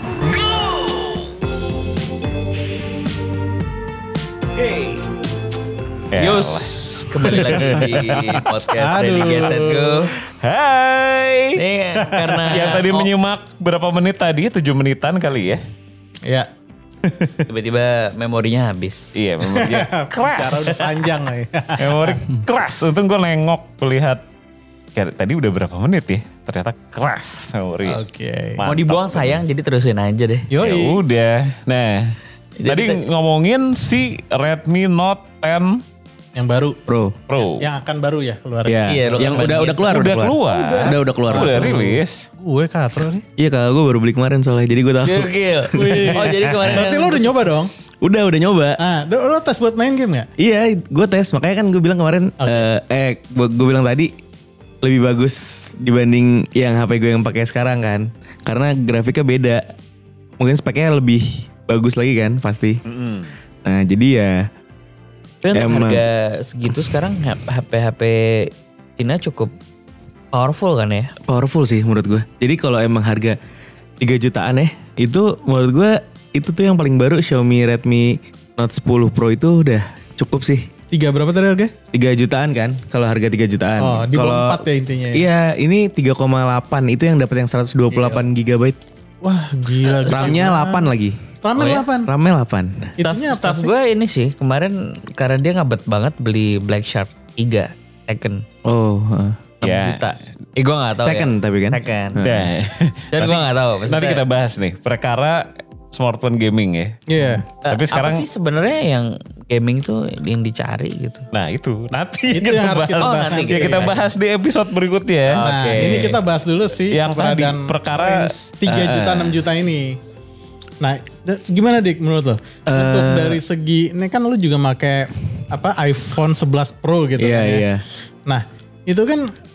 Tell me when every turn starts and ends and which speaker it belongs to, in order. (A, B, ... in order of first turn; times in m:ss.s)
0:00.2-0:01.1 A
0:04.6-0:05.0 B
0:06.1-0:08.4 A
0:06.2-0:10.1 B
0:08.7-0:10.1 C
0:10.2-0:11.6 A
0:11.6-0:13.1 B
0:12.0-0:12.8 C
0:12.5-0:15.6 A
0:17.4-0:19.1 B
0:19.1-0:20.9 A
0:19.4-0:22.2 C
0:21.8-0:24.2 A
0:24.9-0:28.0 A
0:27.8-0:28.6 C
0:28.6-0:29.4 A
0:28.6-0:30.5 B
0:30.5-0:31.0 C
0:30.6-0:35.8 A
0:32.6-0:33.0 B
0:36.4-0:36.8 C
0:36.9-0:37.2 D
0:37.3-0:37.6 A
0:37.6-0:39.6 C
0:38.6-0:42.0 D
0:38.9-0:40.1 B
0:39.9-0:42.2 A
0:40.5-0:43.2 C
0:43.4-0:46.2 D
0:45.0-0:47.3 B
0:45.7-0:47.7 C
0:48.0-0:48.8 D
0:48.8-0:50.3 C
0:50.4-0:54.1 D
0:52.4-0:52.7 C
0:54.8-0:59.7 D
1:00.4-1:02.8 D
1:02.8-1:03.3 A
1:03.6-1:04.5 D
1:05.4-1:09.5 B
1:05.5-1:06.0 D
1:10.3-1:11.1 B
1:11.2-1:13.4 D
1:14.0-1:20.7 D
1:20.9-1:21.7 C
1:21.9-1:24.6 D
1:23.8-1:25.3 C
1:25.1-1:28.8 D
1:27.9-1:28.2 C
1:29.2-1:32.1 C
1:29.9-1:30.4 B
1:30.1-1:32.9 D
1:33.0-1:33.7 C
1:33.0-1:38.4 B
1:38.6-1:39.4 D
1:39.6-1:42.2 B
1:39.6-1:40.0 A
1:41.0-1:42.5 D
1:42.2-1:47.0 A
1:43.1-1:44.2 B
1:47.1-1:47.4 C
1:47.6-1:51.3 B
1:47.7-1:48.2 A
1:51.3-1:56.1 A
1:52.3-1:53.9 C
1:53.0-1:54.1 B
1:55.3-1:56.2 B
1:55.4-2:00.0 C
1:56.9-1:59.4 A
2:00.8-2:07.7 C
2:02.7-2:03.4 D
2:07.2-2:07.8 D
2:08.2-2:09.3 C